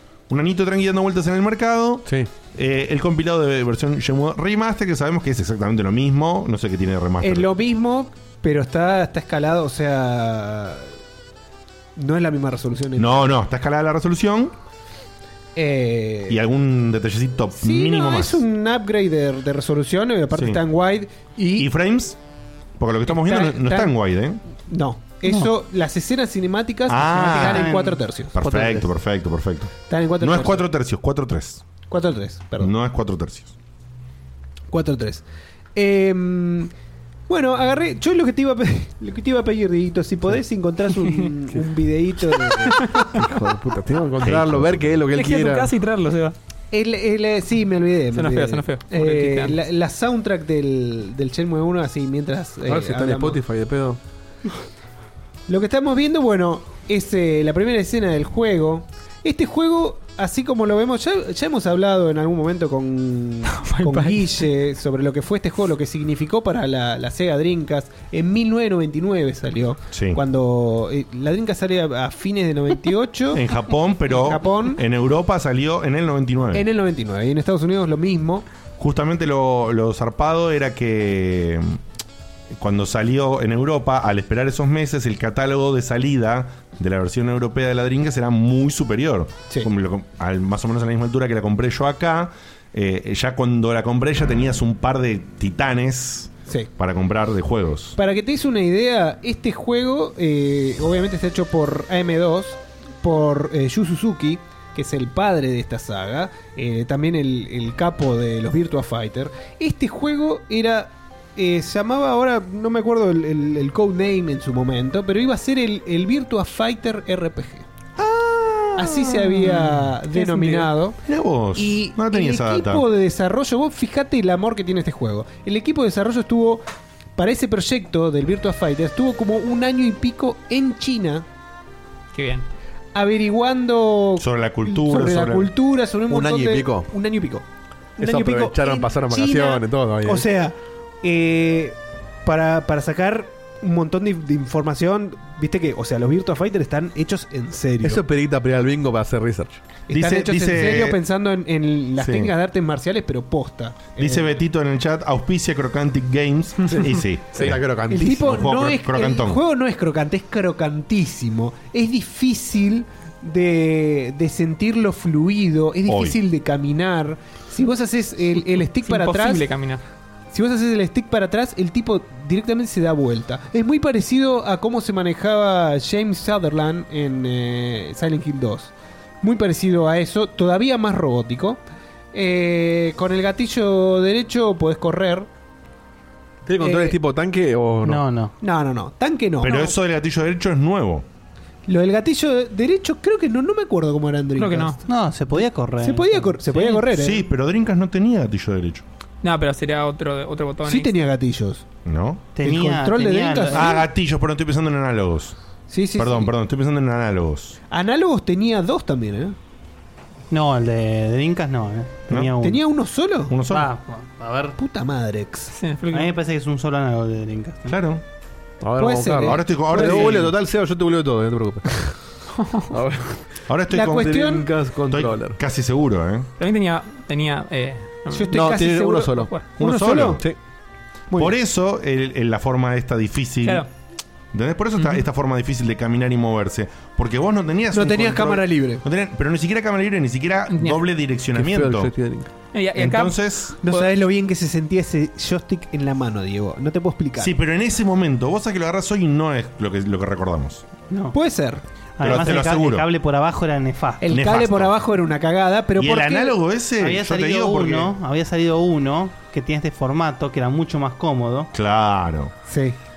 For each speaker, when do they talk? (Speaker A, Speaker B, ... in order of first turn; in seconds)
Speaker A: 0.3-7.5, 13.0-14.5, 16.3-18.4, 20.3-20.6, 21.6-22.2, 22.8-24.4, 26.9-27.7, 28.4-31.6, 32.6-33.5, 44.2-45.0, 69.9-70.2, 73.3-76.7, 78.8-81.8, 82.5-98.0, 118.0-119.8, 121.0-122.8, 134.2-135.5, 149.9-151.0, 152.0-152.3, 154.0-157.6, 158.3-159.4, 165.9-166.2, 189.4-191.1, 196.9-198.8, 201.8-202.2, 203.5-205.4, 205.9-207.6, 212.1-212.3, 213.3-213.7, 217.7-218.0, 219.2-220.3, 223.5-224.1, 224.9-226.3, 229.6-230.2, 231.2-233.7, 234.3-241.9, 242.8-243.6, 247.2-250.7, 252.0-252.9, 254.1-254.7, 255.8-257.9, 261.5-262.3
Speaker B: 7.2-10.9, 12.0-13.2, 15.6-16.4, 17.6-21.7, 23.1-23.9, 24.7-28.4, 29.9-30.6, 31.9-32.7, 34.7-35.2, 35.8-36.7, 37.3-43.0, 46.7-53.4, 55.5-73.4, 74.1-74.8, 76.5-78.5, 98.0-117.7, 118.8-121.0, 121.5-126.6, 127.2-131.3, 132.9-137.5, 138.0-148.0, 149.9-154.3, 157.9-169.5, 170.3-181.6, 182.1-185.3, 186.6-187.0, 188.4-189.8, 191.7-194.8, 195.8-197.2, 200.7-201.6, 202.4-203.8, 205.7-206.3, 207.7-209.4, 212.4-213.4, 214.6-215.5, 218.8-220.2, 223.7-224.5, 228.1-230.2, 237.7-238.8, 243.6-247.3, 251.1-251.6, 254.0-256.4, 262.5-262.8
Speaker C: 25.3-25.5, 27.2-28.8, 187.8-188.3, 194.9-196.7, 202.3-203.8, 210.3-212.6, 213.5-214.6, 215.9-217.8, 252.0-254.1, 256.8-261.5
Speaker D: 42.8-43.1, 45.1-46.4, 48.1-49.6, 63.5-64.4, 132.1-132.5, 168.8-169.8, 194.4-194.8, 199.2-200.9, 215.5-216.2, 222.4-222.7, 226.4-228.4, 229.2-229.5, 240.5-240.8, 242.5-243.9
Speaker E: 43.1-45.7, 52.6-54.0, 136.1-136.9, 138.0-140.3, 147.8-149.6, 157.3-158.5, 186.5-188.0, 218.6-221.9, 222.7-223.2, 223.9-225.4, 228.3-229.3, 241.3-242.3